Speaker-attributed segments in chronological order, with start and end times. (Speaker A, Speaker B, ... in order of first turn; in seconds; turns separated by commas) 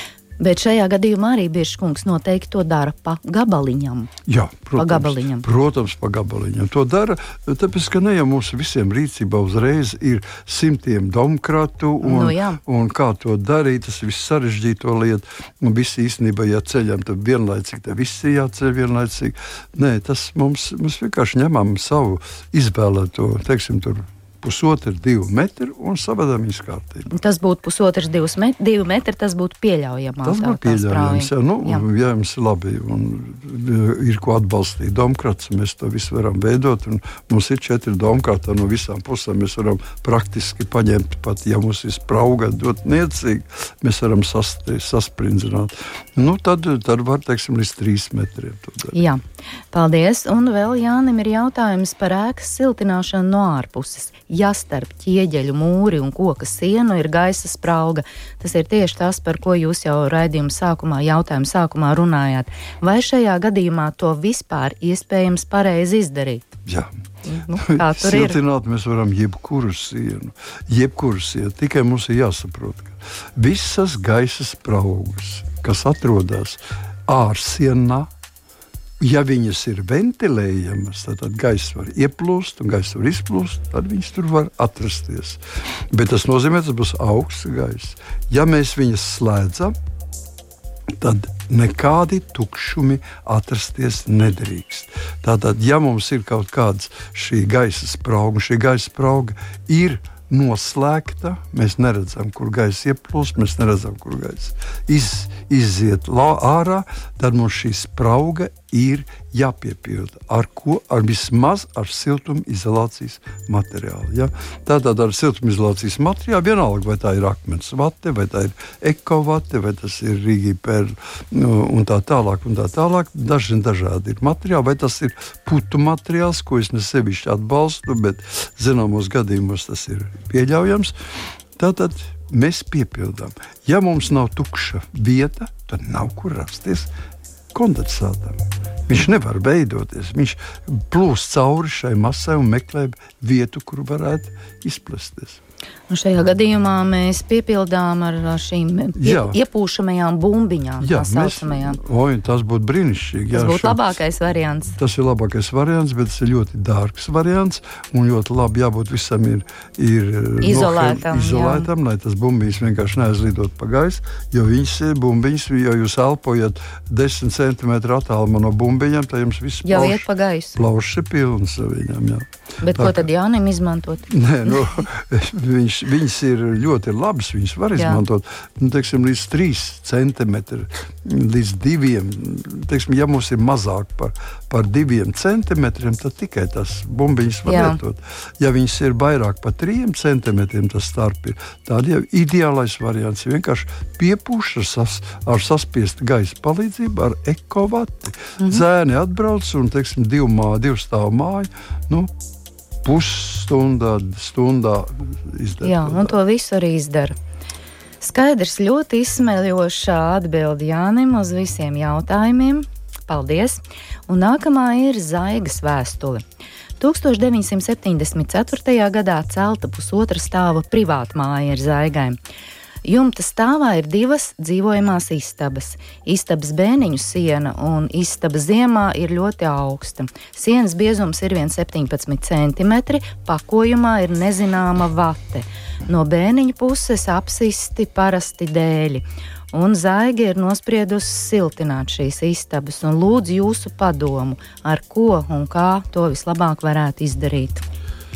Speaker A: 0.4-4.1, Speaker B: 4.3-27.1, Speaker A: 4.8-5.5, Speaker A: 12.0-12.6, Speaker A: 27.1-31.8, Speaker B: 30.2-49.0, Speaker A: 48.9-66.5, Speaker B: 66.7-66.9, Speaker A: 67.2-68.4, Speaker B: 67.6-78.1, Speaker B: 79.0-85.4, Speaker B: 85.9-89.8, Speaker B: 91.0-130.9, Speaker B: 131.6-136.9, Speaker B: 137.5-145.4, Speaker A: 145.9-151.8, Speaker B: 149.0-149.4, Speaker B: 150.8-154.0, Speaker A: 153.3-154.8, Speaker B: 154.8-173.1, Speaker A: 160.4-161.7, Speaker A: 169.6-170.6, Speaker A: 172.6-174.8, Speaker B: 174.1-202.1, Speaker A: 187.4-187.8, Speaker B: 202.8-206.2, Speaker A: 205.6-207.2, Speaker A: 208.0-216.2, Speaker A: 216.8-222.2, Speaker A: 222.8-247.6